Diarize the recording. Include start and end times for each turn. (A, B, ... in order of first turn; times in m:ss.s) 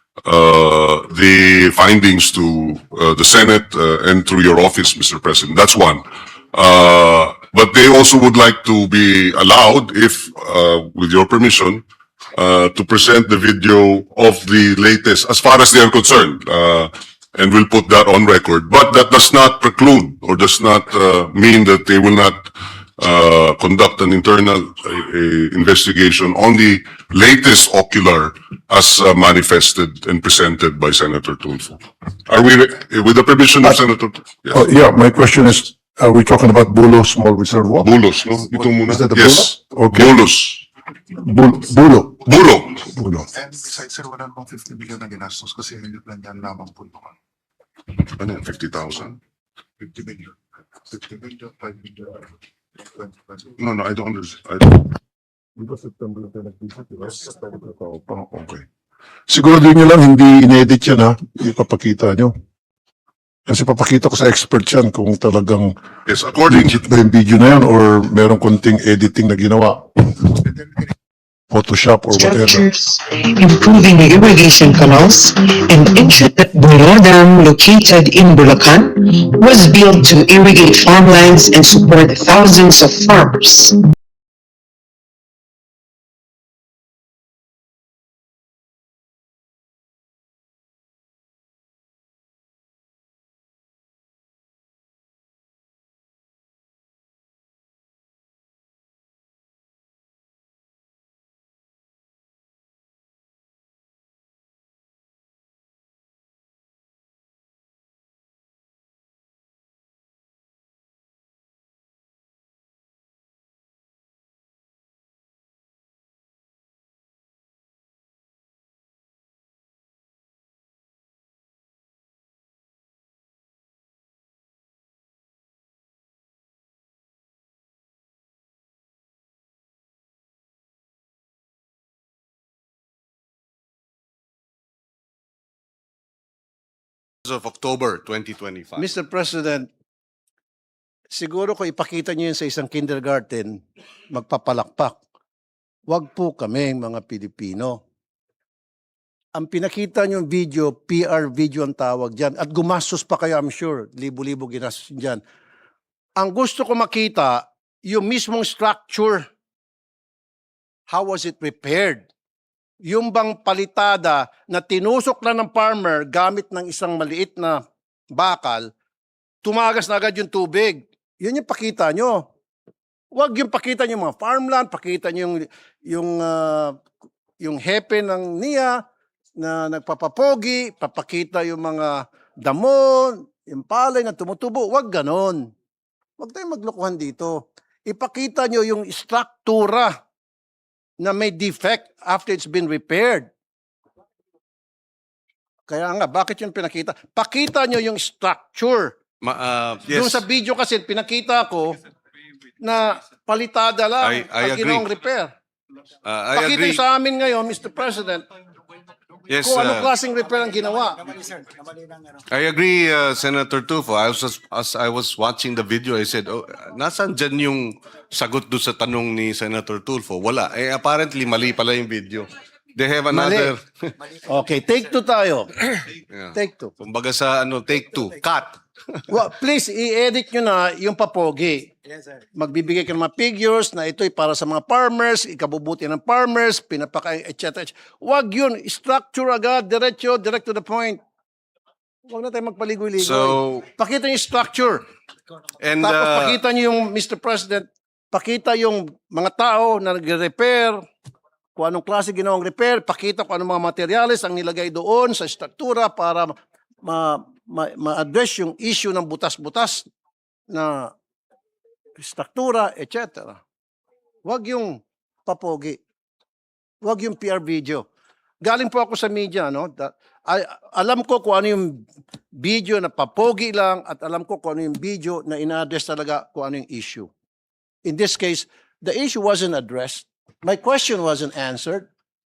0:00.2-0:11.8 A
0:12.3-0:34.6 A
0:34.5-0:37.9 B
0:37.8-0:40.6 A
0:38.8-0:40.1 B
0:41.2-0:42.2 B
0:42.2-0:42.8 A
0:42.8-0:43.3 B
0:43.6-0:47.0 C
0:48.1-0:49.2 A
0:53.6-0:54.9 A
0:55.6-0:58.6 B
0:59.3-1:02.3 B
1:03.5-1:05.7 B
1:06.1-1:06.7 A
1:06.5-1:10.1 B
1:11.5-1:12.6 B
1:12.1-1:23.8 D
2:17.2-2:18.9 E
2:18.8-2:19.7 F
2:21.1-2:25.0 F
2:25.9-2:27.8 F
2:29.3-2:35.2 F
2:36.2-2:39.2 F
2:40.9-2:42.0 F
2:42.8-2:47.6 F
2:48.1-2:48.7 F
2:49.4-2:52.2 F
2:53.1-2:56.8 F
2:57.4-2:58.8 F
2:59.4-3:05.5 F
3:06.2-3:09.9 F
3:11.0-3:13.3 F
3:15.7-3:19.0 F
3:19.2-3:20.2 E
3:19.9-3:21.8 F
3:22.6-3:25.3 F
3:24.0-3:24.9 E
3:26.0-3:26.8 E
3:26.3-3:28.2 F
3:29.3-3:29.9 E
3:29.4-3:31.1 F
3:32.3-3:43.9 E
3:43.1-3:43.5 F
3:44.2-3:45.6 F
3:46.1-3:49.0 E
3:46.3-3:46.7 F
3:49.1-3:51.7 F
3:52.3-4:01.0 F
4:02.1-4:04.8 F
4:03.0-4:03.7 E
4:05.6-4:06.4 E
4:05.8-4:10.8 F
4:11.6-4:16.3 F
4:16.8-4:19.8 F
4:20.5-4:20.9 F
4:22.0-4:23.4 F
4:24.2-4:25.8 F
4:26.8-4:27.8 F
4:28.4-4:37.1 F
4:37.8-4:41.9 F